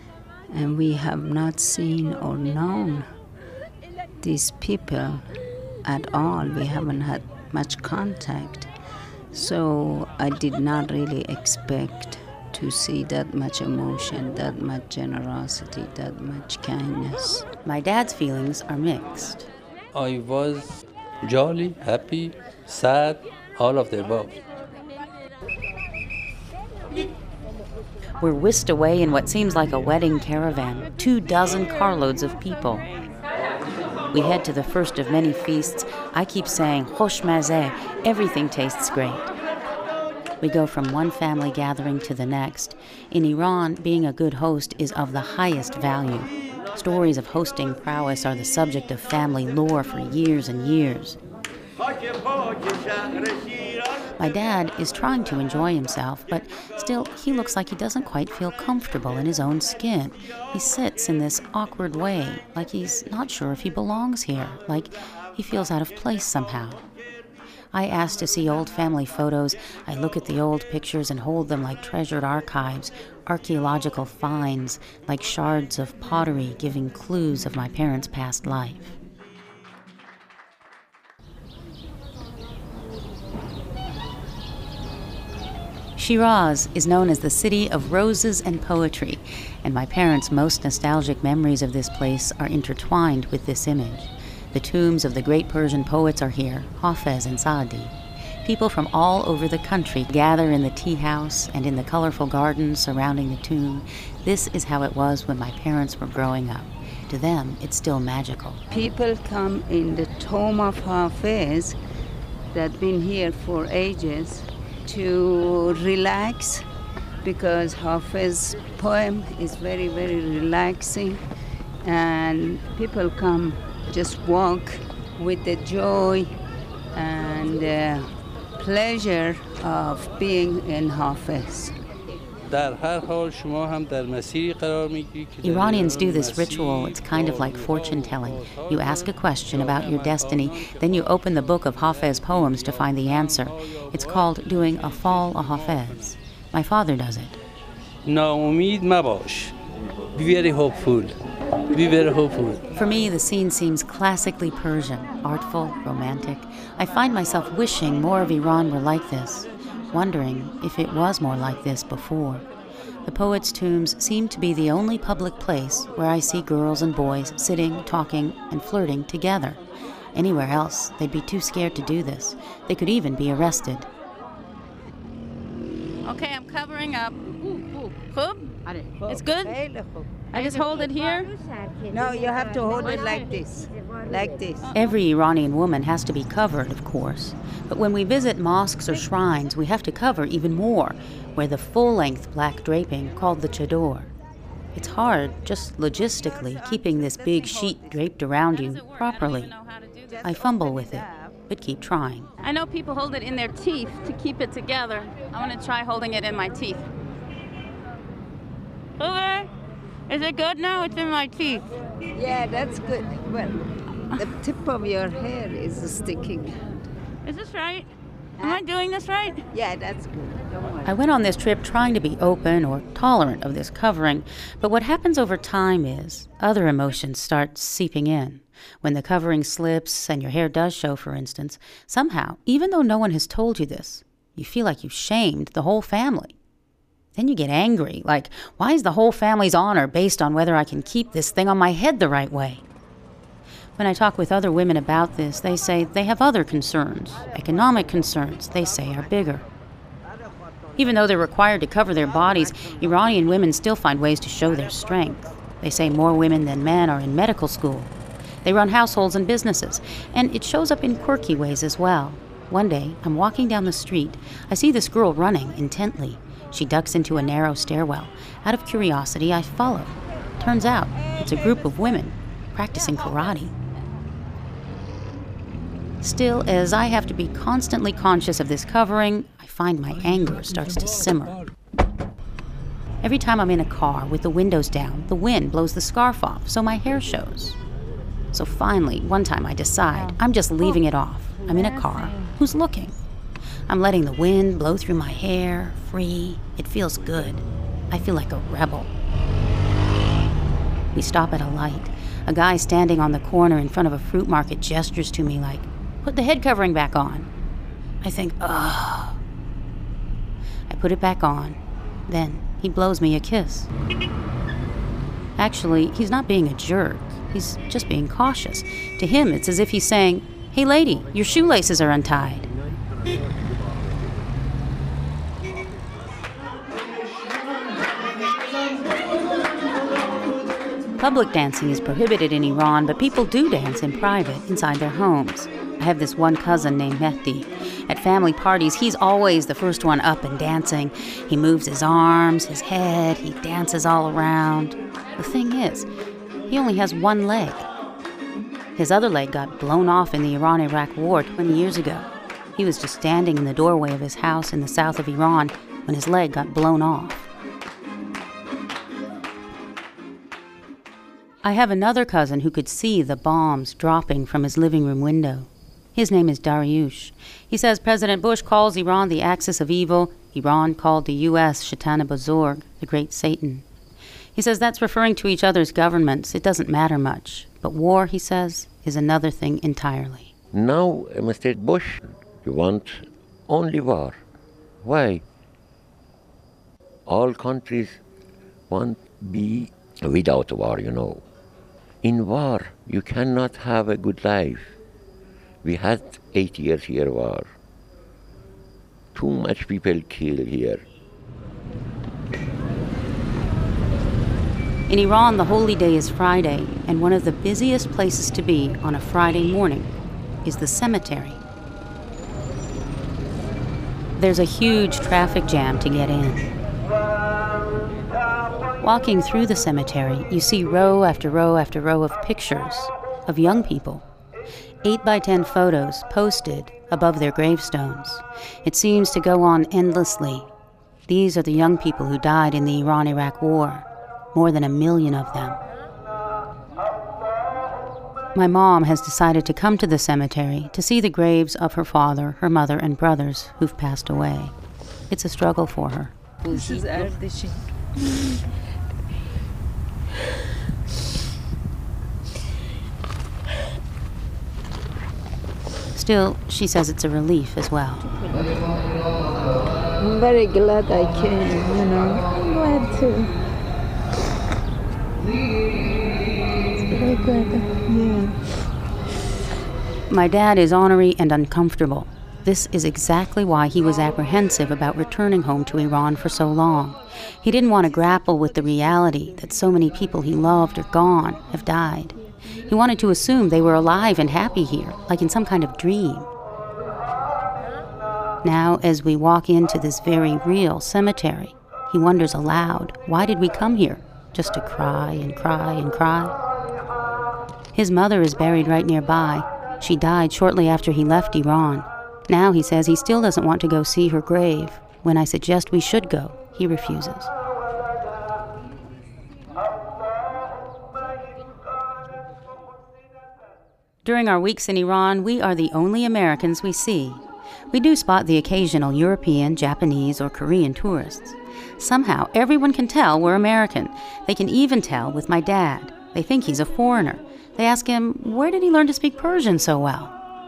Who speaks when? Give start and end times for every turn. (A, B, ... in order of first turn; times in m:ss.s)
0:00.5-0:03.1 A
0:04.2-0:05.3 A
0:05.8-0:08.7 A
0:09.3-0:17.5 A
0:17.6-0:19.5 B
0:19.9-0:24.4 C
0:28.2-0:32.9 B
0:34.1-0:39.3 B
0:40.4-0:51.2 B
0:54.2-1:06.8 B
1:07.7-1:19.0 B
1:26.0-1:48.6 B
1:48.7-1:51.8 A
1:52.5-1:56.6 A
1:57.2-2:01.2 A
2:01.8-2:06.4 A
2:06.9-2:11.8 A
2:12.5-2:20.9 C
2:15.4-2:27.4 B
2:22.4-2:25.9 C
2:28.0-2:29.6 C
2:30.1-2:31.2 C
2:31.7-2:32.6 C
2:32.7-2:42.5 B
2:43.0-2:49.6 B
2:50.1-2:53.9 B
2:56.0-2:59.5 D
2:59.0-3:00.1 A
3:00.3-3:01.3 D
3:01.9-3:04.7 A
3:04.8-3:14.1 B
3:14.8-3:19.5 B
3:16.6-3:18.1 A
3:18.5-3:20.3 D
3:20.2-3:22.3 B
3:20.5-3:21.4 A
3:22.4-3:26.8 D
3:29.0-3:29.5 D
3:30.1-3:31.6 D
3:32.1-3:33.6 A
3:34.2-3:36.8 A
3:37.2-3:37.9 D
3:38.4-3:39.4 D
3:39.5-3:40.4 A
3:40.8-3:56.4 B
3:57.2-4:02.6 B
4:03.8-4:09.4 B
4:10.8-4:17.9 B
4:18.4-4:33.5 B
4:36.0-4:41.4 B
4:43.0-4:47.6 B
4:48.3-4:53.0 B
4:49.9-4:50.8 D
4:51.4-4:52.4 D
4:53.7-4:58.9 B
5:00.9-5:07.3 B
5:08.0-5:09.2 B
5:10.7-5:13.7 B
5:15.4-5:22.5 B
5:31.0-5:45.9 B
5:46.5-5:47.7 B
5:48.8-5:57.3 B
6:01.4-6:13.6 B
6:14.4-6:20.3 B
6:20.5-6:24.2 E
6:24.8-6:25.2 E
6:27.1-6:28.0 E
6:28.7-6:31.2 E
6:32.0-6:34.8 E
6:35.6-6:37.5 E
6:39.1-6:40.8 E
6:44.9-6:49.9 B
6:50.4-6:51.4 B
6:54.2-6:56.5 B
6:58.8-7:04.0 B
7:04.8-7:10.5 B
7:11.1-7:15.6 B
7:18.3-7:24.5 B
7:25.1-7:26.1 B
7:26.4-7:27.6 A
7:35.9-7:38.1 B
7:40.0-7:42.3 A
7:46.9-7:48.1 A
7:50.1-8:02.2 B
8:02.7-8:06.3 B
8:08.4-8:16.4 B
8:17.7-8:27.3 B
8:34.0-8:50.1 B